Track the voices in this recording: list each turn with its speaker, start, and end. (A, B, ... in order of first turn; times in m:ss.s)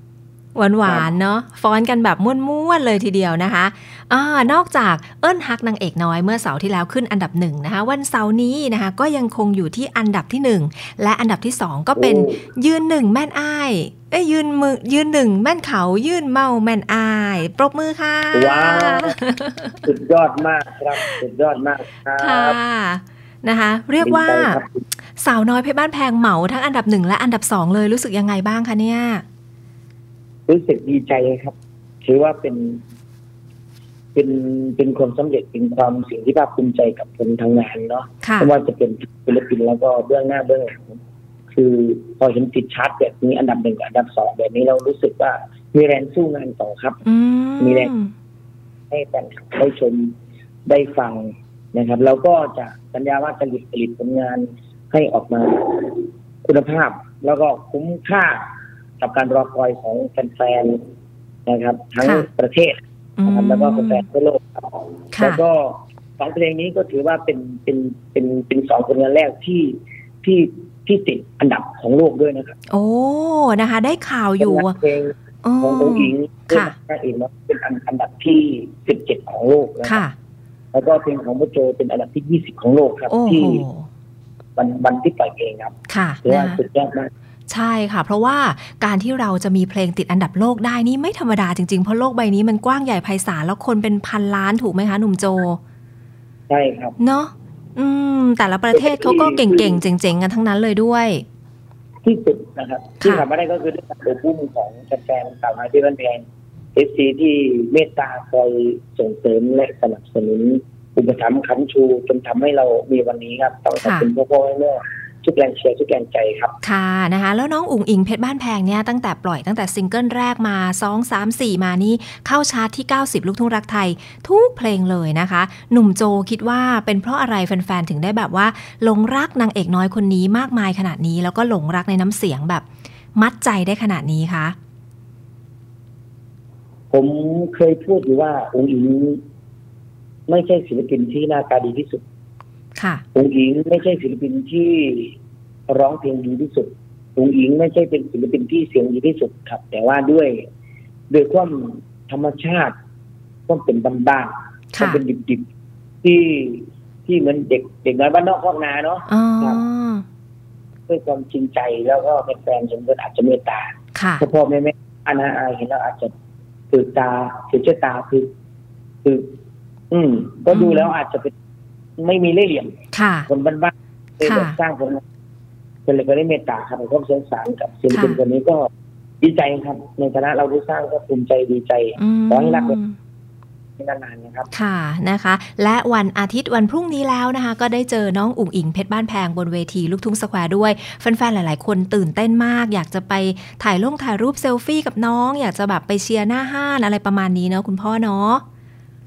0:00.6-0:19.8 A
0:12.0-0:12.4 B
0:18.3-0:19.2 B
0:19.8-0:22.6 B
0:22.2-0:24.6 A
0:24.0-0:24.8 B
0:25.2-0:29.2 A
0:30.5-0:32.8 B
0:34.2-0:41.0 B
0:38.2-0:38.5 A
0:41.5-0:47.0 B
0:47.0-0:48.1 A
0:47.6-0:47.9 B
0:48.9-0:50.1 B
0:50.7-0:58.4 B
0:59.0-1:00.8 B
1:01.5-1:12.6 B
1:02.0-1:02.3 A
1:03.2-1:04.0 A
1:05.1-1:05.4 A
1:12.7-1:14.8 A
1:14.4-1:20.0 B
1:15.4-1:16.7 A
1:19.8-1:20.1 A
1:20.7-1:23.6 B
1:23.1-1:23.9 A
1:24.6-1:25.7 B
1:25.9-1:26.6 A
1:26.2-1:27.1 B
1:27.5-1:35.6 A
1:36.5-1:37.0 B
1:37.0-1:41.2 A
1:38.7-1:39.8 B
1:42.0-1:46.2 B
1:46.8-1:56.5 B
1:53.8-1:54.1 A
1:56.6-2:12.6 A
2:13.2-2:14.6 A
2:16.9-2:19.2 B
2:20.3-2:22.0 B
2:22.8-2:23.0 A
2:23.2-2:25.2 B
2:25.7-2:30.4 B
2:31.1-2:32.8 B
2:33.5-2:35.4 B
2:34.7-2:35.0 A
2:36.0-2:39.6 B
2:39.1-2:40.0 A
2:40.9-2:46.1 B
2:44.0-2:44.2 A
2:46.7-2:48.3 B
2:49.0-2:49.3 B
2:49.9-2:51.3 B
2:50.5-2:50.9 A
2:52.0-2:52.8 B
2:52.9-2:53.3 A
2:53.3-2:55.0 B
2:54.2-2:54.6 A
2:55.9-2:58.7 B
2:57.9-2:58.2 A
2:59.2-3:02.8 B
3:02.0-3:03.0 A
3:03.8-3:04.5 B
3:04.5-3:18.4 A